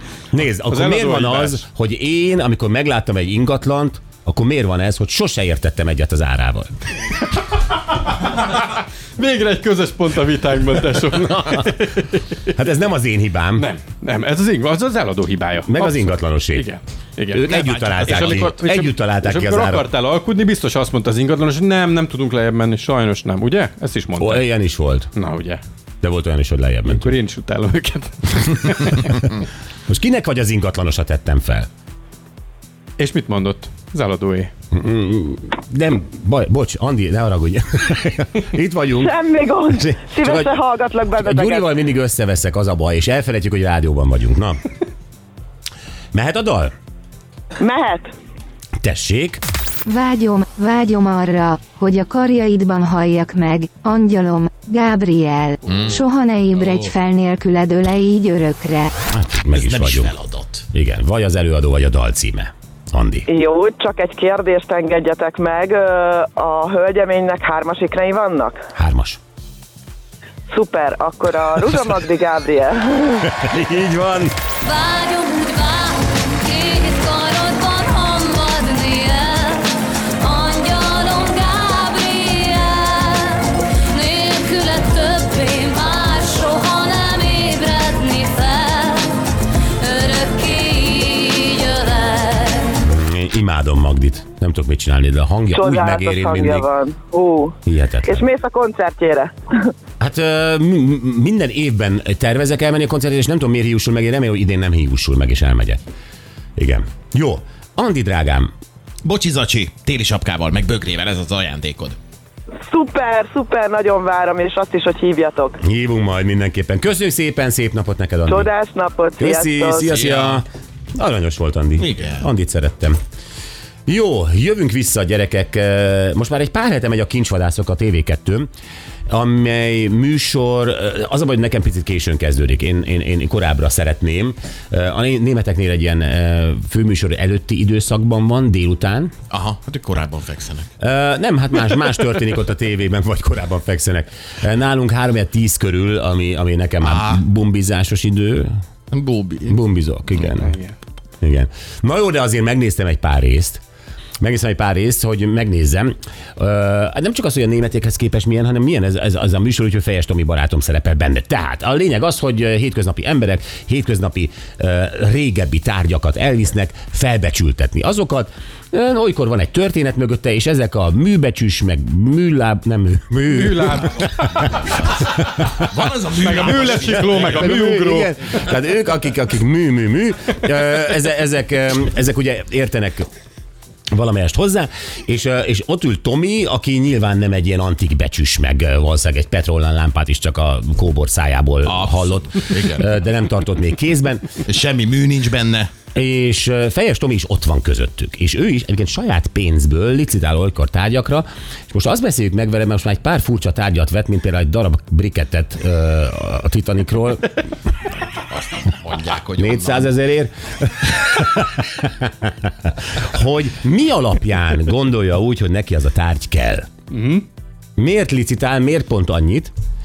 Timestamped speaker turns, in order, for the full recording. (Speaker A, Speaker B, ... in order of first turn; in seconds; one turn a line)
Speaker A: 0.3-6.7
Speaker B: 0.7-1.6
Speaker B: 8.1-12.2
Speaker A: 12.5-13.7
Speaker B: 13.6-24.4
Speaker A: 15.7-16.7
Speaker A: 17.3-19.9
Speaker A: 24.2-25.1
Speaker B: 25.1-25.6
Speaker A: 26.0-27.1
Speaker B: 26.9-29.1
Speaker A: 29.9-31.7
Speaker B: 33.0-34.5
Speaker A: 34.7-39.1
Speaker C: 39.0-41.6
Speaker A: 39.7-40.5
Speaker A: 41.2-44.6
Speaker A: 46.1-46.7
Speaker C: 47.6-48.1
Speaker A: 48.8-49.4
Speaker D: 49.9-58.9
Speaker E: 55.6-56.9
Speaker A: 59.1-60.1
Speaker E: 59.5-60.6
Speaker A: 60.7-63.3
Speaker C: 63.3-68.6
Speaker A: 68.8-69.2
Speaker C: 70.5-73.2
Speaker A: 73.2-74.3
Speaker F: 74.6-79.7
Speaker F: 80.2-89.2
Speaker F: 89.8-92.8
Speaker A: 92.8-96.7
Speaker C: 95.5-99.7
Speaker A: 97.6-98.2
Speaker A: 100.0-105.8
Speaker A: 106.6-108.5
Speaker E: 109.0-112.0
Speaker C: 112.7-115.6
Speaker A: 115.6-118.5
Speaker C: 118.3-119.9
Speaker A: 119.2-123.0
Speaker E: 119.9-120.4
Speaker E: 121.8-122.2
Speaker A: 123.9-128.5
Speaker A: 129.1-139.1
Speaker E: 139.3-140.7
Speaker A: 140.8-148.5
Speaker E: 146.8-147.2
Speaker E: 148.9-149.6
Speaker A: 149.5-150.5
Speaker B: 150.4-150.7
Speaker A: 151.2-153.6
Speaker A: 154.2-173.9
Speaker B: 173.3-174.4
Speaker E: 175.5-177.4
Speaker B: 176.2-178.1
Speaker A: 177.2-183.1
Speaker A: 183.9-194.4
Speaker E: 191.7-192.8
Speaker E: 194.4-195.7
Speaker A: 195.9-207.4
Speaker E: 208.1-209.9
Speaker A: 209.4-216.7
Speaker B: 216.9-217.2
Speaker A: 217.8-219.5